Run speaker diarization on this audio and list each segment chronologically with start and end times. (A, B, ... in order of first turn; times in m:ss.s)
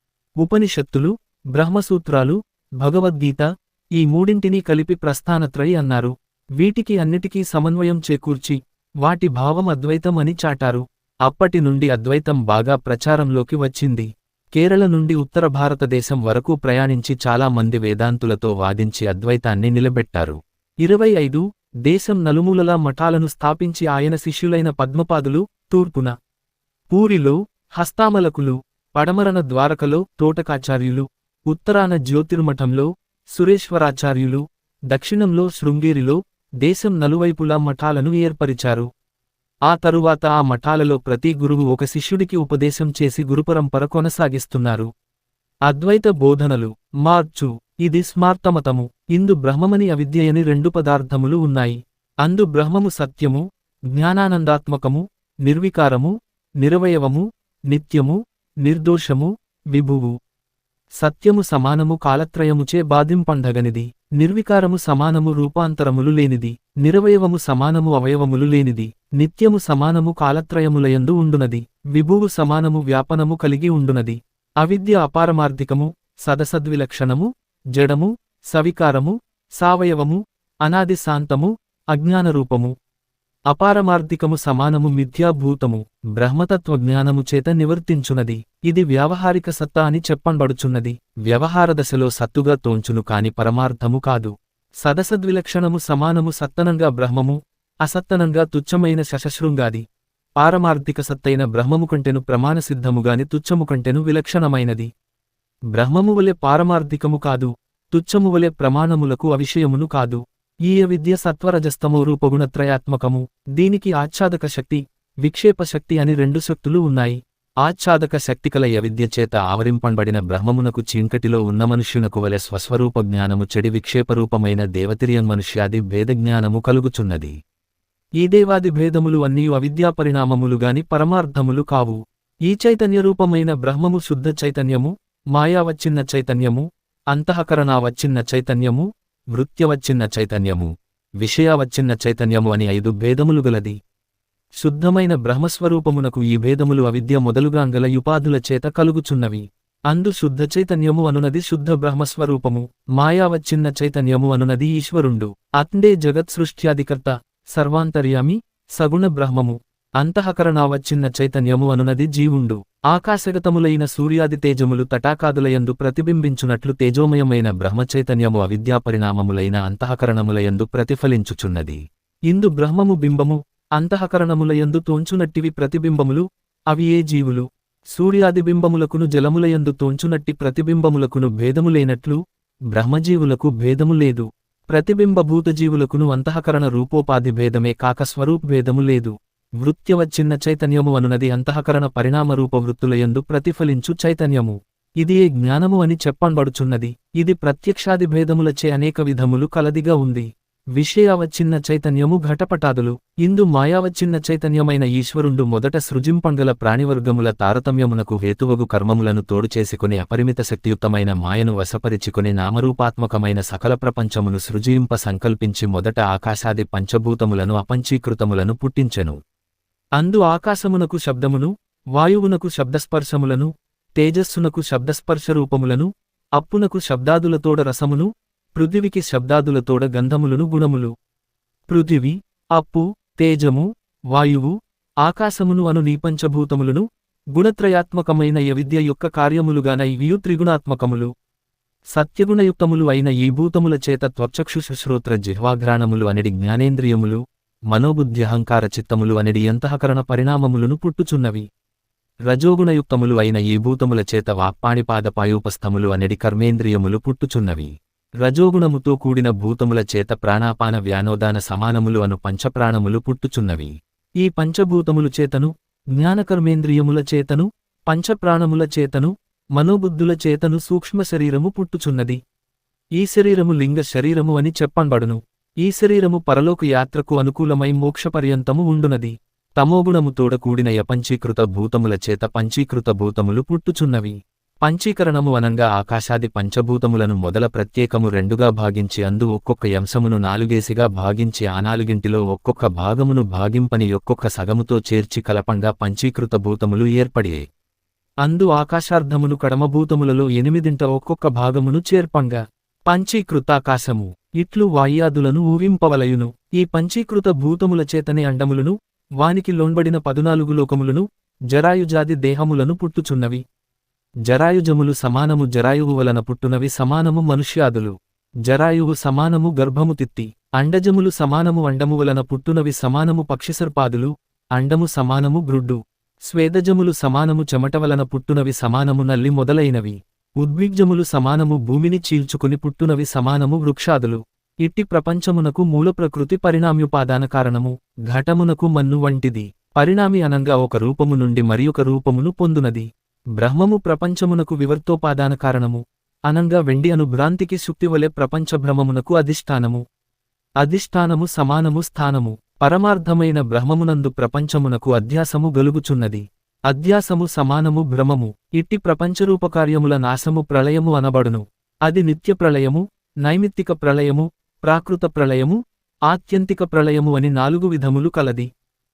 0:00.4-0:26.2 A
0:26.9-0:38.9 A
0:39.7-0:44.9 A
0:45.7-1:00.2 A
1:01.0-1:22.7 A
1:23.5-1:39.8 A
1:40.4-1:44.9 A
1:45.7-2:07.4 A
2:08.2-2:23.8 A
2:24.6-3:02.2 A
3:02.7-3:39.2 A
3:40.0-3:50.9 A
3:51.7-4:01.1 A
4:01.9-4:11.5 A
4:12.3-4:32.2 A
4:33.0-4:57.5 A
4:58.2-5:13.4 A
5:14.3-5:49.8 A
5:50.6-6:08.5 A